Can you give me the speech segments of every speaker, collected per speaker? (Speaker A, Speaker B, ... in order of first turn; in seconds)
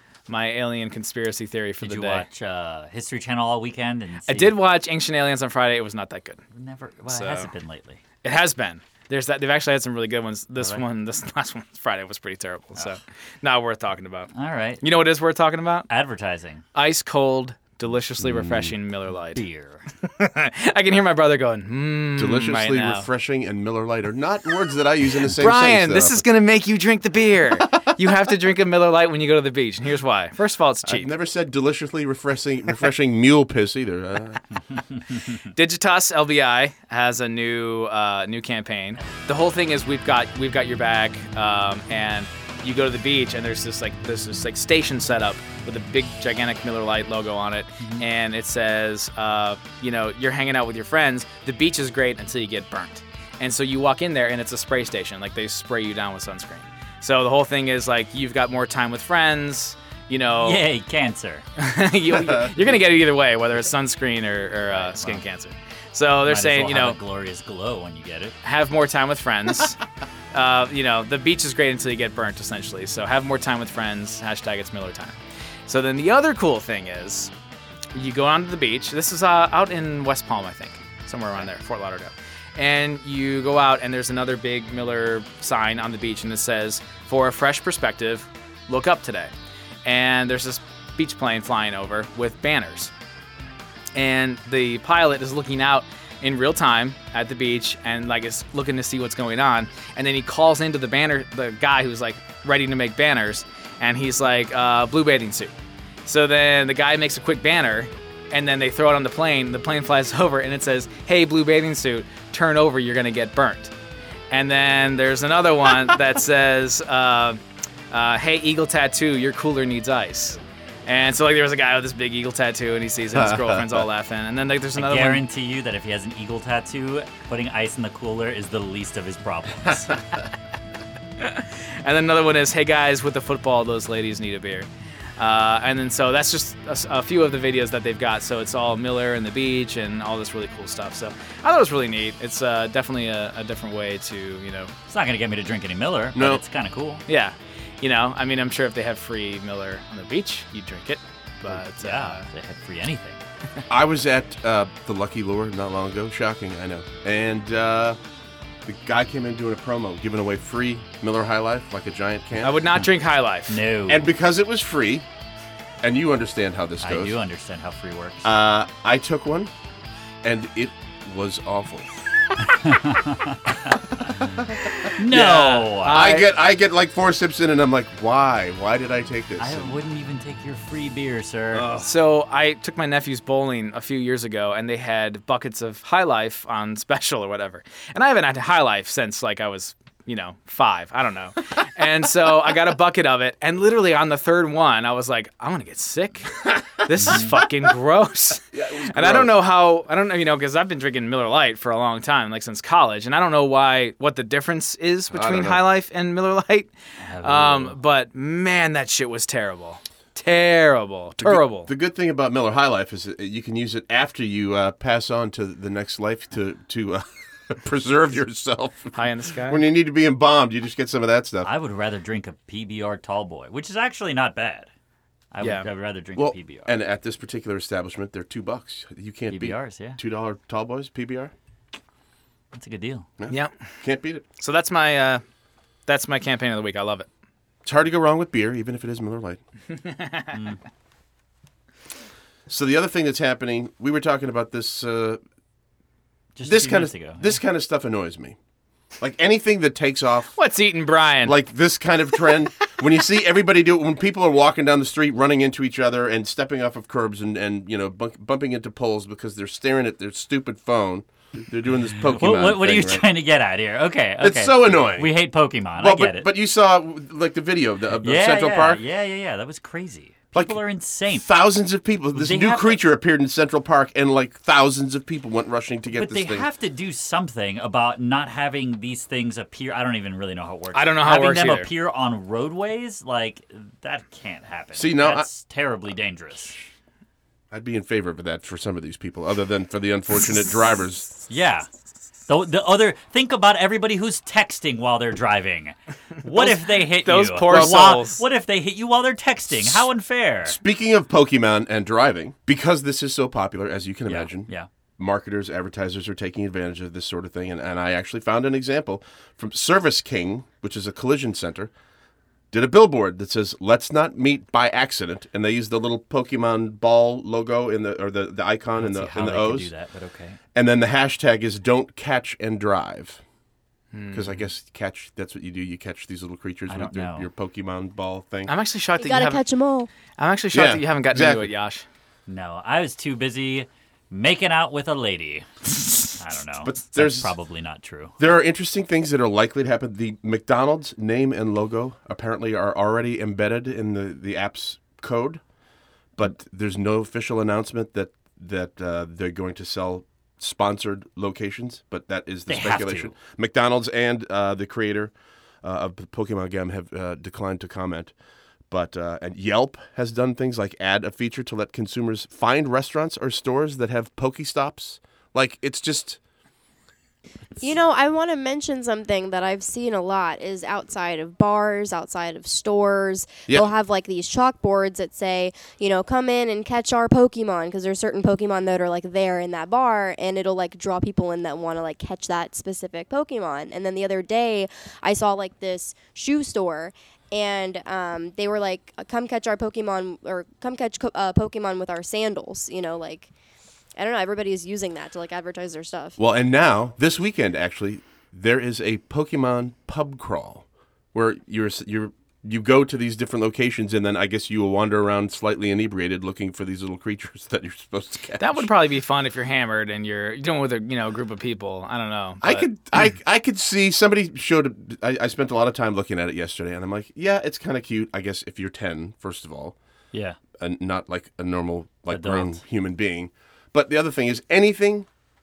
Speaker A: 0.3-2.3, 4.3-6.4, 7.1-7.5, 8.2-14.3, 14.8-15.9, 16.8-19.4, 20.0-23.1, 25.3-31.1, 35.5-60.6, 61.6-67.0, 68.4-69.8, 70.3-75.2, 75.7-77.3, 78.0-89.3, 89.8-92.9, 94.0-105.5, 106.1-113.7, 114.3-117.4, 117.9-125.2, 131.2-144.7, 147.1-152.3, 162.4-163.6, 174.8-176.3, 181.8-211.7, 218.9-219.6, 225.4-225.7, 234.4-235.2, 235.9-237.1, 239.8-240.3, 250.4-251.4, 280.7-281.7, 296.3-298.2, 323.9-324.4, 328.5-329.4, 330.2-331.8, 408.4-412.7
Speaker B: 1.8-4.6, 6.5-8.0, 14.3-14.8, 15.9-16.7, 19.3-19.9, 60.4-61.5, 64.7-65.2, 66.2-68.4, 124.8-130.1, 144.9-147.1, 151.5-153.2, 163.5-164.1, 166.8-168.3, 172.4-173.7, 175.0-176.2, 179.4-181.8, 197.0-197.4, 207.0-207.8, 221.4-224.7, 225.3-226.8, 229.3-230.0, 232.5-233.1, 240.3-240.6, 246.4-247.4, 262.2-266.3, 268.0-271.3, 272.1-272.8, 275.9-286.6, 291.3-291.7, 292.3-300.6, 304.1-304.7, 318.8-320.4, 326.7-327.3, 332.3-338.2, 352.5-353.1, 420.1-420.4, 422.1-422.6
Speaker C: 18.2-18.7, 22.2-26.2, 30.8-34.4, 62.1-62.6, 123.2-123.8, 146.2-146.4, 153.7-158.0, 158.7-162.7, 163.9-165.1, 165.8-167.2, 168.2-169.5, 170.2-172.0, 174.0-175.2, 175.8-179.8, 181.5-181.9, 198.5-199.3, 205.1-205.6, 211.2-221.5, 226.2-231.3, 233.2-234.3, 237.7-239.4, 242.5-245.2, 246.4-248.4, 249.0-250.3, 251.2-263.1, 264.2-265.1, 265.8-268.8, 270.3-276.5, 284.8-285.3, 287.5-291.1, 297.5-297.8, 300.5-311.7, 312.5-319.7, 320.5-323.2, 324.1-328.5, 330.5-331.5, 336.6-337.3, 338.2-345.4, 346.2-355.1, 355.6-358.1, 358.7-366.2, 396.2-408.7, 412.4-419.8, 420.6-425.1
Speaker D: 329.0-329.9, 367.6-393.3, 394.0-396.2